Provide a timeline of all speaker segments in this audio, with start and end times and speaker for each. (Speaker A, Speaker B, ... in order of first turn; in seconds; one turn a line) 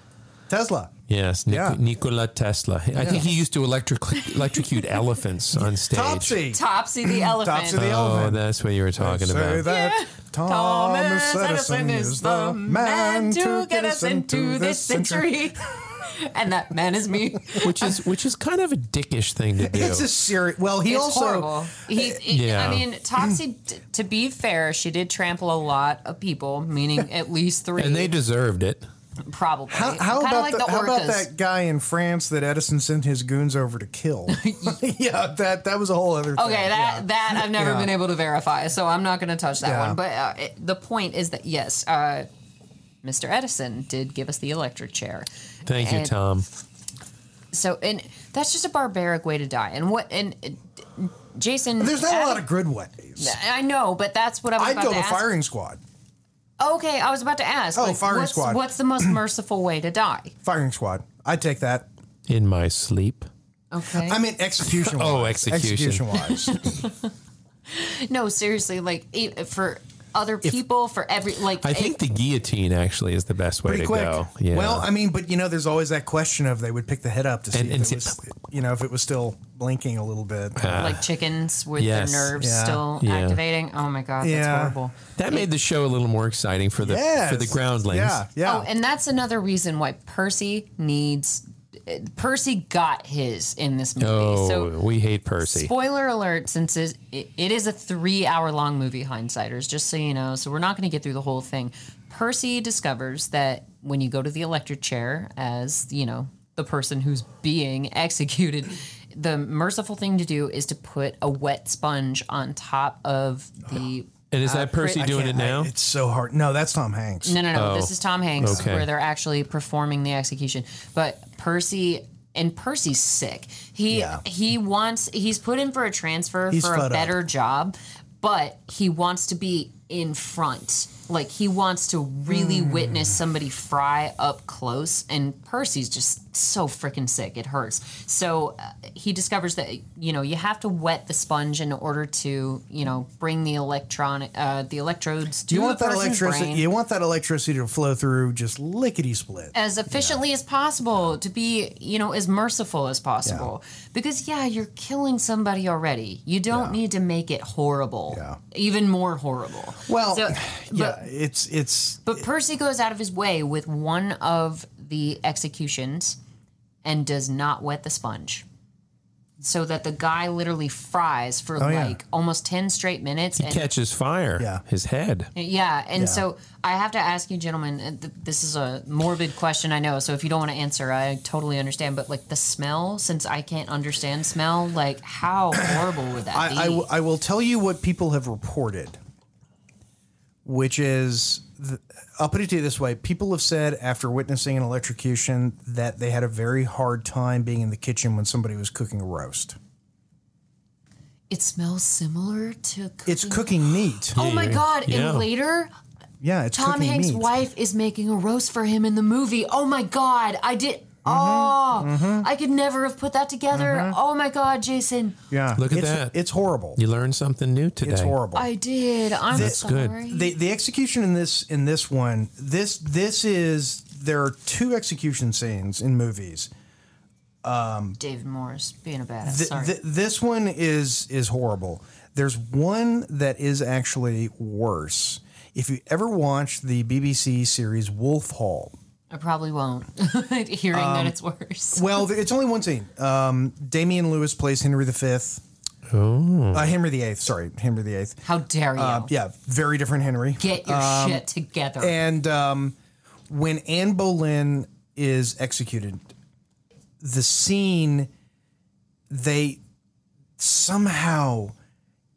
Speaker A: 0.5-1.8
Speaker B: 1.1-6.4
Speaker A: 3.0-3.2
Speaker A: 5.9-8.4
Speaker C: 6.5-7.8
Speaker B: 7.7-9.7
Speaker A: 9.0-15.4
Speaker C: 9.6-17.9
Speaker B: 17.6-20.1
Speaker A: 19.6-22.1
Speaker C: 20.8-28.1
Speaker B: 22.3-22.9
Speaker B: 27.8-28.8
Speaker C: 29.2-31.3
Speaker A: 29.7-37.9
Speaker C: 34.3-34.8
Speaker C: 36.4-42.3
Speaker A: 39.6-40.0
Speaker C: 43.0-45.3
Speaker B: 45.6-46.5
Speaker C: 45.8-46.1
Speaker C: 47.5-52.4
Speaker A: 51.8-53.4
Speaker C: 53.2-55.3
Speaker A: 54.5-55.8
Speaker C: 56.6-60.3
Speaker A: 57.7-59.2
Speaker A: 60.4-61.9
Speaker B: 62.3-63.3
Speaker C: 63.7-64.2
Speaker A: 63.9-66.6
Speaker B: 64.8-66.2
Speaker C: 66.3-67.1
Speaker C: 67.7-72.0
Speaker B: 71.6-74.9
Speaker A: 73.6-81.0
Speaker B: 77.5-78.2
Speaker B: 80.5-81.1
Speaker C: 80.7-85.5
Speaker B: 81.8-82.3
Speaker A: 82.4-82.9
Speaker B: 83.0-83.4
Speaker A: 84.2-84.8
Speaker B: 85.2-88.2
Speaker A: 86.8-88.7
Speaker C: 88.4-94.7
Speaker B: 94.0-95.7
Speaker C: 95.4-115.3
Speaker B: 114.3-115.7
Speaker A: 115.0-117.4
Speaker C: 117.2-146.7
Speaker B: 117.5-118.9
Speaker A: 118.4-118.7
Speaker A: 123.9-124.2
Speaker A: 126.5-127.2
Speaker A: 132.3-133.2
Speaker A: 145.5-150.2
Speaker C: 149.5-161.0
Speaker A: 153.2-153.5
Speaker A: 156.5-156.8
Speaker A: 158.1-158.4
Speaker A: 159.8-162.2
Speaker C: 162.1-166.2
Speaker C: 166.8-168.4
Speaker C: 169.4-173.7
Speaker A: 171.6-172.0
Speaker B: 173.4-175.3
Speaker A: 174.4-174.6
Speaker C: 175.3-186.9
Speaker A: 176.0-176.2
Speaker A: 185.5-189.0
Speaker A: 190.4-199.6
Speaker C: 201.3-203.6
Speaker A: 203.1-204.2
Speaker C: 204.1-205.7
Speaker B: 204.1-205.2
Speaker A: 206.2-207.3
Speaker C: 206.5-215.2
Speaker A: 211.0-212.3
Speaker A: 213.5-214.0
Speaker A: 215.3-216.8
Speaker B: 215.6-216.2
Speaker B: 216.8-218.2
Speaker A: 217.8-218.5
Speaker C: 218.3-220.3
Speaker A: 219.3-226.5
Speaker B: 219.3-220.0
Speaker A: 227.4-228.0
Speaker C: 228.0-229.8
Speaker A: 229.2-238.7
Speaker C: 239.1-242.0
Speaker A: 240.7-241.2
Speaker A: 241.7-245.4
Speaker B: 245.9-246.7
Speaker A: 246.5-248.2
Speaker C: 248.2-249.1
Speaker A: 248.8-251.2
Speaker C: 250.4-252.0
Speaker A: 251.8-252.8
Speaker A: 253.3-256.1
Speaker A: 257.0-258.1
Speaker A: 259.1-259.6
Speaker A: 260.4-261.5